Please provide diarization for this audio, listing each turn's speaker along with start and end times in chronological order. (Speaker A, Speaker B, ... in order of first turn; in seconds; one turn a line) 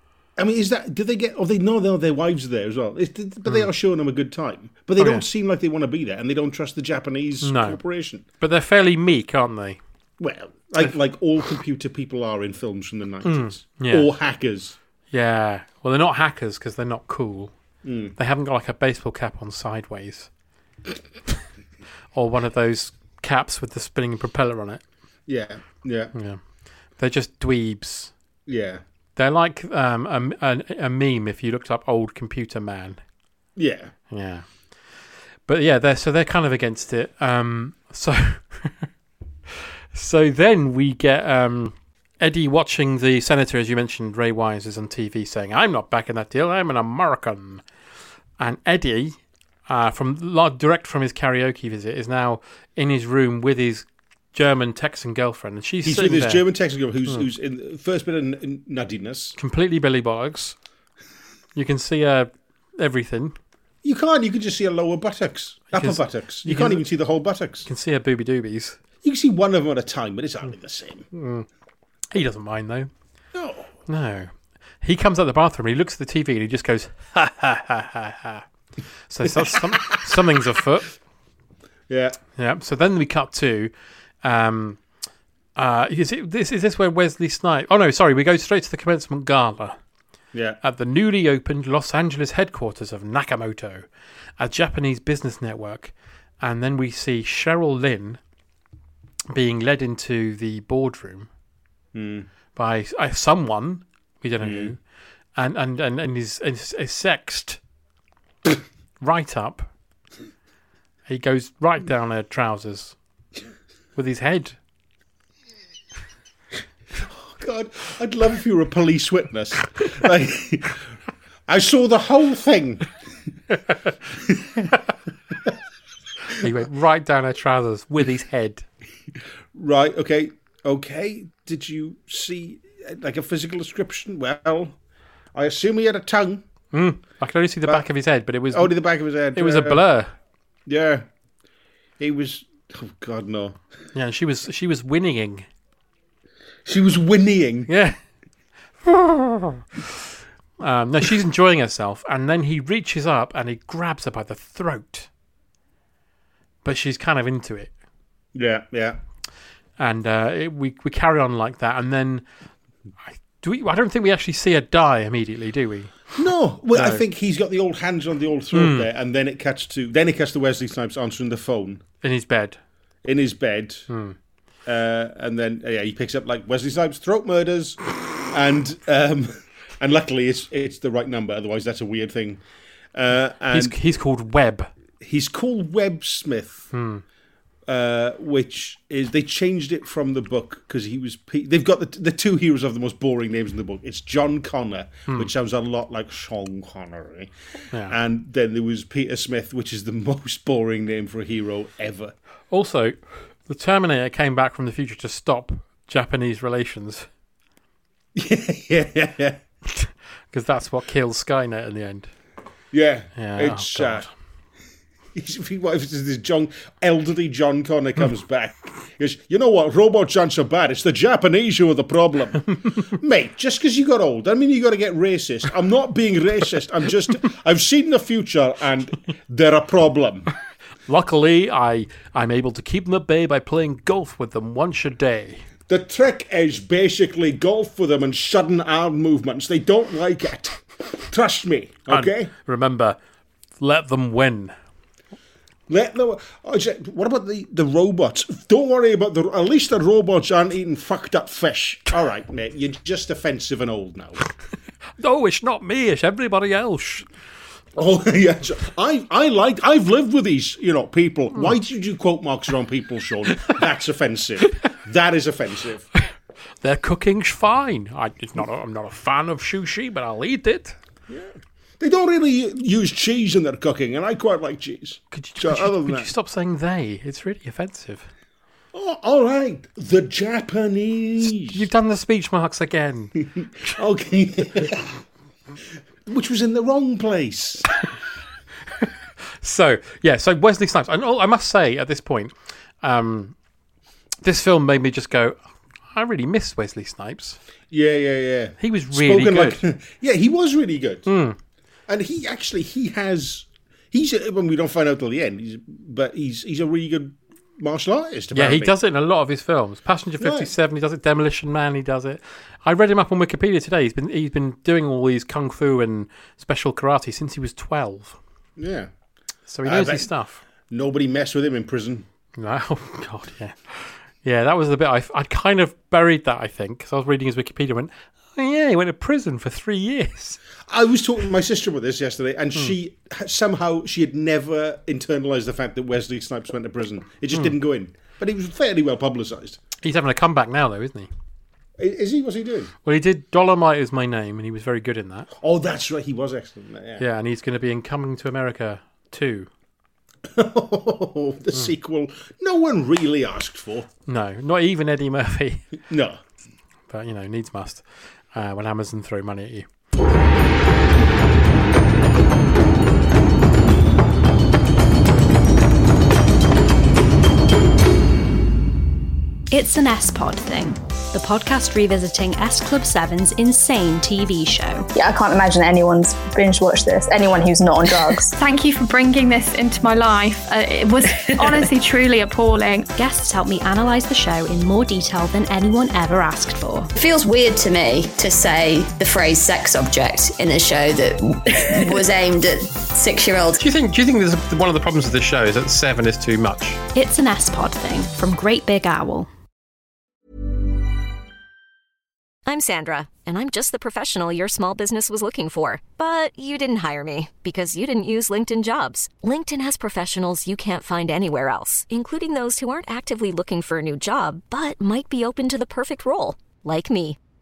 Speaker A: 0.4-8.2
Speaker B: 5.0-5.2
Speaker B: 7.4-7.8
Speaker B: 8.4-9.8
Speaker A: 10.2-14.8
Speaker B: 13.2-14.1
Speaker B: 15.1-17.5
Speaker A: 17.8-18.1
Speaker B: 18.1-20.3
Speaker B: 22.1-24.8
Speaker A: 25.3-26.1
Speaker B: 26.1-26.4
Speaker B: 26.9-28.1
Speaker A: 28.5-28.8
Speaker B: 29.1-33.0
Speaker A: 33.5-33.9
Speaker B: 34.1-34.5
Speaker B: 35.5-38.9
Speaker B: 39.9-47.6
Speaker B: 48.4-56.4
Speaker A: 55.8-59.4
Speaker B: 59.4-60.6
Speaker B: 61.5-63.4
Speaker A: 63.8-67.7
Speaker B: 65.7-66.9
Speaker B: 67.6-68.8
Speaker A: 69.0-71.1
Speaker B: 71.1-71.5
Speaker B: 72.1-72.9
Speaker A: 73.3-73.7
Speaker B: 73.9-78.5
Speaker B: 79.1-80.9
Speaker A: 79.7-80.1
Speaker A: 81.9-82.2
Speaker B: 82.3-83.7
Speaker B: 84.2-84.8
Speaker B: 85.5-89.8
Speaker A: 90.3-90.6
Speaker B: 90.6-93.8
Speaker B: 94.4-98.2
Speaker B: 99.3-101.3
Speaker A: 101.9-102.3
Speaker B: 102.5-104.8
Speaker A: 104.4-104.7
Speaker B: 105.3-107.6
Speaker B: 109.0-109.7
Speaker B: 111.1-113.0
Speaker B: 114.0-114.6
Speaker A: 117.0-120.8
Speaker A: 121.5-122.9
Speaker A: 124.3-124.7
Speaker B: 126.4-128.7
Speaker A: 129.5-134.8
Speaker A: 135.3-136.4
Speaker B: 136.7-138.8
Speaker A: 138.5-139.8
Speaker B: 139.3-140.1
Speaker A: 140.7-141.1
Speaker A: 142.0-143.6
Speaker B: 143.9-145.5
Speaker A: 146.7-147.7
Speaker B: 147.7-148.0
Speaker B: 148.8-149.6
Speaker B: 150.6-155.1
Speaker B: 156.6-157.7
Speaker A: 158.3-159.0
Speaker B: 159.8-162.2
Speaker B: 163.1-166.2
Speaker A: 166.1-171.8
Speaker B: 166.7-167.0
Speaker B: 168.5-168.8
Speaker B: 172.0-172.6
Speaker A: 173.0-173.9
Speaker B: 173.9-174.2
Speaker A: 174.6-182.4
Speaker A: 182.9-183.7
Speaker B: 183.5-184.7
Speaker A: 185.0-186.7
Speaker B: 186.7-187.0
Speaker A: 187.7-197.3
Speaker A: 197.9-202.1
Speaker B: 202.5-207.1
Speaker A: 208.1-209.4
Speaker B: 209.7-212.1
Speaker A: 212.7-214.1
Speaker B: 213.2-214.1
Speaker A: 215.1-230.3
Speaker B: 230.9-235.4
Speaker A: 235.7-242.3
Speaker B: 241.9-243.0
Speaker B: 243.6-244.5
Speaker A: 245.7-254.2
Speaker B: 255.0-257.1
Speaker A: 257.8-265.9
Speaker B: 266.6-270.8
Speaker A: 271.1-276.1
Speaker B: 275.1-278.1
Speaker A: 278.7-281.6
Speaker B: 281.2-283.7
Speaker A: 283.4-284.9
Speaker A: 286.1-287.7
Speaker B: 289.4-293.3
Speaker B: 294.2-295.4
Speaker B: 295.9-297.4
Speaker A: 297.7-301.1
Speaker B: 298.6-299.6
Speaker B: 301.1-301.4
Speaker A: 301.9-308.7
Speaker B: 308.3-318.2
Speaker A: 310.2-310.5
Speaker A: 318.6-318.9
Speaker B: 319.5-320.4
Speaker A: 319.6-322.1
Speaker B: 322.4-330.4
Speaker A: 330.7-339.6
Speaker B: 339.8-341.1
Speaker A: 341.8-342.7
Speaker B: 342.8-345.3
Speaker A: 345.4-347.0
Speaker B: 347.0-349.5
Speaker A: 350.3-353.9
Speaker B: 354.1-355.8
Speaker A: 355.9-356.2
Speaker B: 356.9-359.7
Speaker C: 369.5-374.9
Speaker D: 374.9-378.3
Speaker E: 378.3-382.9
Speaker C: 382.9-386.9
Speaker F: 386.9-393.6
Speaker B: 393.6-396.8
Speaker C: 396.9-399.3
Speaker G: 402.4-417.2